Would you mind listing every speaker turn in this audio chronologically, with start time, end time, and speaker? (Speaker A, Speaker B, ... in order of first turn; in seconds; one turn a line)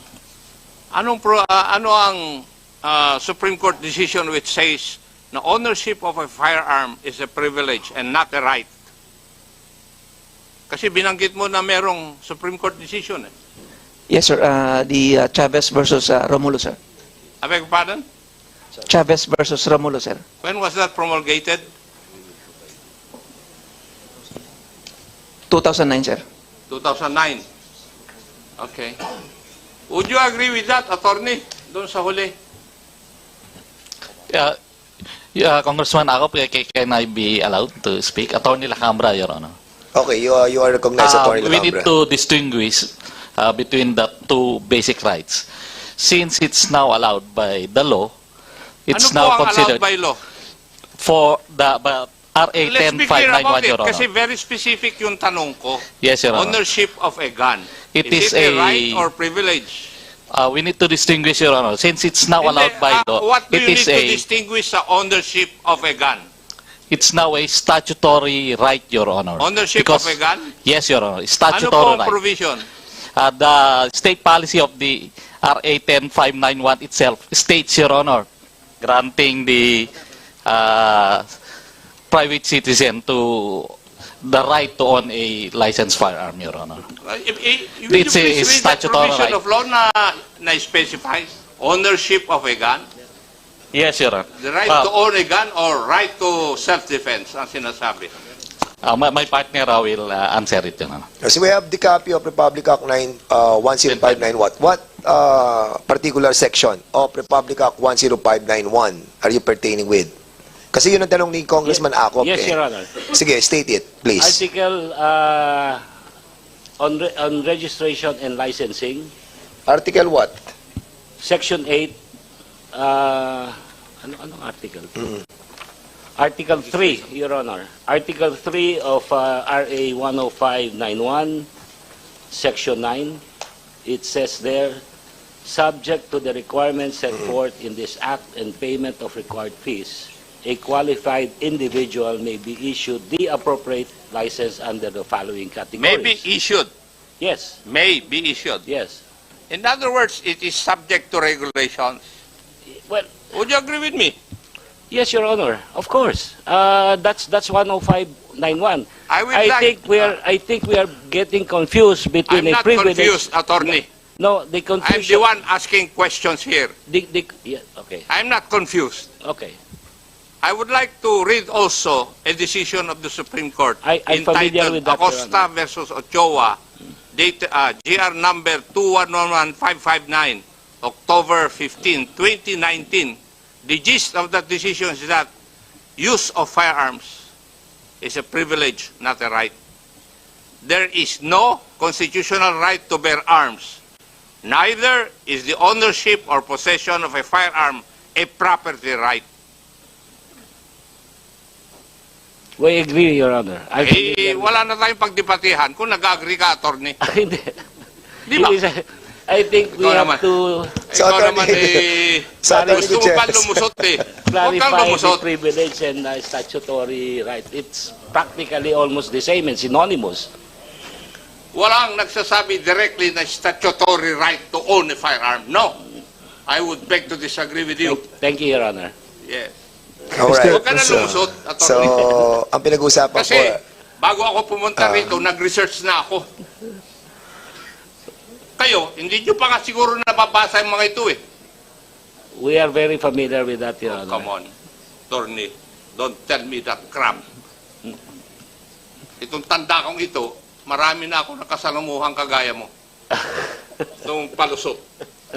Speaker A: 0.9-8.7
Speaker A: 10.7-13.3
Speaker B: 14.1-16.8
Speaker A: 17.4-18.1
Speaker B: 18.9-20.2
Speaker A: 20.4-21.6
Speaker B: 25.5-26.2
Speaker A: 26.7-27.4
Speaker A: 28.6-29.0
Speaker A: 29.9-32.3
Speaker C: 35.4-39.5
Speaker D: 39.9-41.9
Speaker C: 41.0-45.5
Speaker C: 46.0-48.1
Speaker C: 48.9-49.9
Speaker A: 48.9-50.2
Speaker C: 51.0-54.1
Speaker A: 52.6-59.9
Speaker C: 56.0-56.6
Speaker C: 57.9-59.1
Speaker C: 60.3-64.2
Speaker A: 62.4-66.3
Speaker C: 66.9-72.2
Speaker A: 69.4-70.5
Speaker A: 71.5-72.7
Speaker C: 73.2-78.3
Speaker C: 78.8-79.9
Speaker C: 80.5-81.2
Speaker C: 82.1-86.8
Speaker A: 87.0-92.9
Speaker C: 87.9-89.4
Speaker C: 93.7-94.9
Speaker A: 94.4-98.1
Speaker C: 98.8-101.1
Speaker D: 101.2-110.1
Speaker C: 103.9-104.3
Speaker D: 110.7-114.4
Speaker E: 111.7-113.0
Speaker E: 114.2-115.8
Speaker E: 116.8-119.1
Speaker D: 119.7-120.4
Speaker E: 121.2-122.0
Speaker E: 122.7-124.9
Speaker E: 126.2-131.5
Speaker E: 132.3-133.2
Speaker E: 133.8-134.8
Speaker E: 135.4-146.3
Speaker A: 145.8-146.7
Speaker E: 147.2-147.6
Speaker A: 147.7-148.7
Speaker E: 148.7-149.0
Speaker A: 149.5-152.0
Speaker E: 152.9-153.2
Speaker A: 153.3-154.2
Speaker E: 154.9-165.3
Speaker A: 159.1-160.2
Speaker A: 162.3-163.9
Speaker A: 164.8-166.8
Speaker E: 166.9-168.1
Speaker A: 168.1-169.1
Speaker E: 169.2-169.6
Speaker A: 170.4-176.6
Speaker E: 173.8-175.5
Speaker A: 177.1-185.3
Speaker A: 186.0-187.2
Speaker A: 188.0-189.5
Speaker A: 190.6-193.8
Speaker A: 194.4-199.2
Speaker E: 202.6-204.6
Speaker A: 203.8-207.0
Speaker E: 207.0-207.6
Speaker A: 208.3-208.6
Speaker E: 208.3-210.7
Speaker A: 209.8-210.2
Speaker A: 210.9-215.2
Speaker D: 210.9-213.7
Speaker E: 212.4-212.8
Speaker E: 214.2-220.3
Speaker A: 221.5-225.8
Speaker A: 226.5-228.0
Speaker E: 227.8-228.9
Speaker A: 229.2-229.5
Speaker D: 230.2-233.6
Speaker A: 230.3-232.2
Speaker A: 233.1-236.3
Speaker D: 234.8-235.2
Speaker A: 238.6-241.2
Speaker E: 242.4-244.3
Speaker A: 243.8-244.5
Speaker A: 245.1-247.2
Speaker A: 249.2-252.7
Speaker A: 254.0-254.8